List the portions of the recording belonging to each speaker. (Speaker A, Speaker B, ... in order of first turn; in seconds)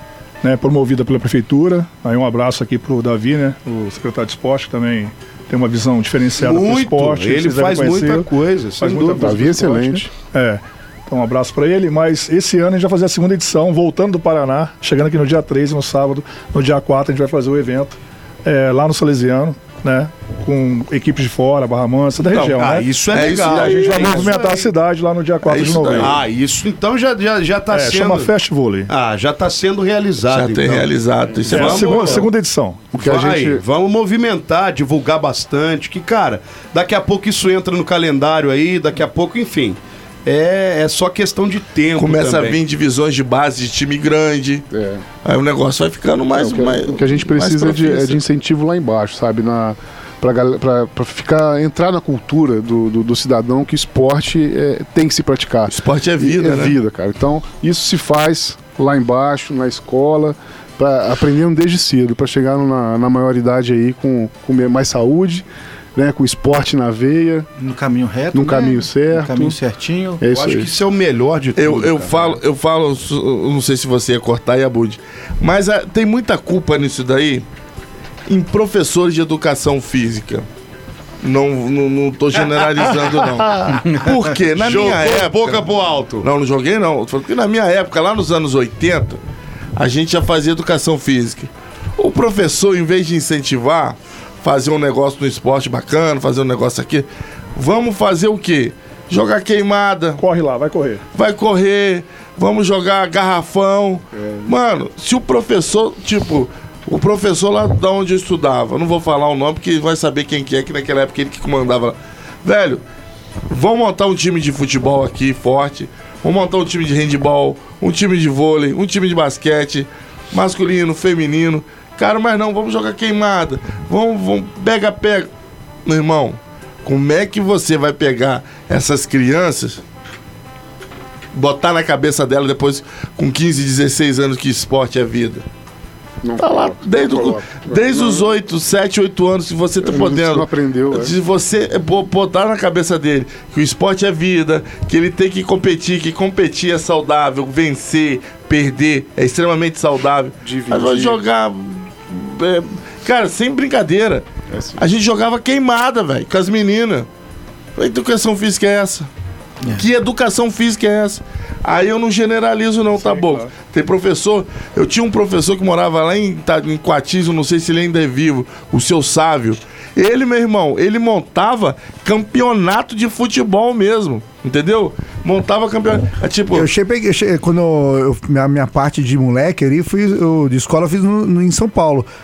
Speaker A: 0.4-26.2, 27.7-28.9, 31.5-32.8, 100.2-101.0, 163.0-163.5
Speaker B: 6.4-9.7, 22.2-24.7, 25.7-28.3, 28.9-30.9, 31.4-32.3, 33.0-42.6, 70.3-72.4, 84.6-86.3
Speaker C: 9.2-10.1, 31.4-31.7, 32.9-33.6, 44.7-45.0, 46.3-67.5, 68.3-69.6, 70.2-70.7, 104.2-104.5, 136.2-138.3, 139.8-141.1, 150.4-151.2, 154.5-154.8
Speaker D: 23.1-24.4, 25.5-26.2, 30.3-32.3, 42.0-44.7, 45.2-48.2, 55.7-56.8, 71.6-77.5, 78.3-80.5, 81.2-85.7, 86.2-89.2, 89.8-100.2, 101.2-112.8, 113.5-125.3, 125.9-129.8, 131.3-135.4, 136.4-154.3, 154.8-157.1, 157.8-159.1, 159.7-176.7
Speaker E: 67.6-70.3, 83.8-84.2
Speaker F: 176.5-182.1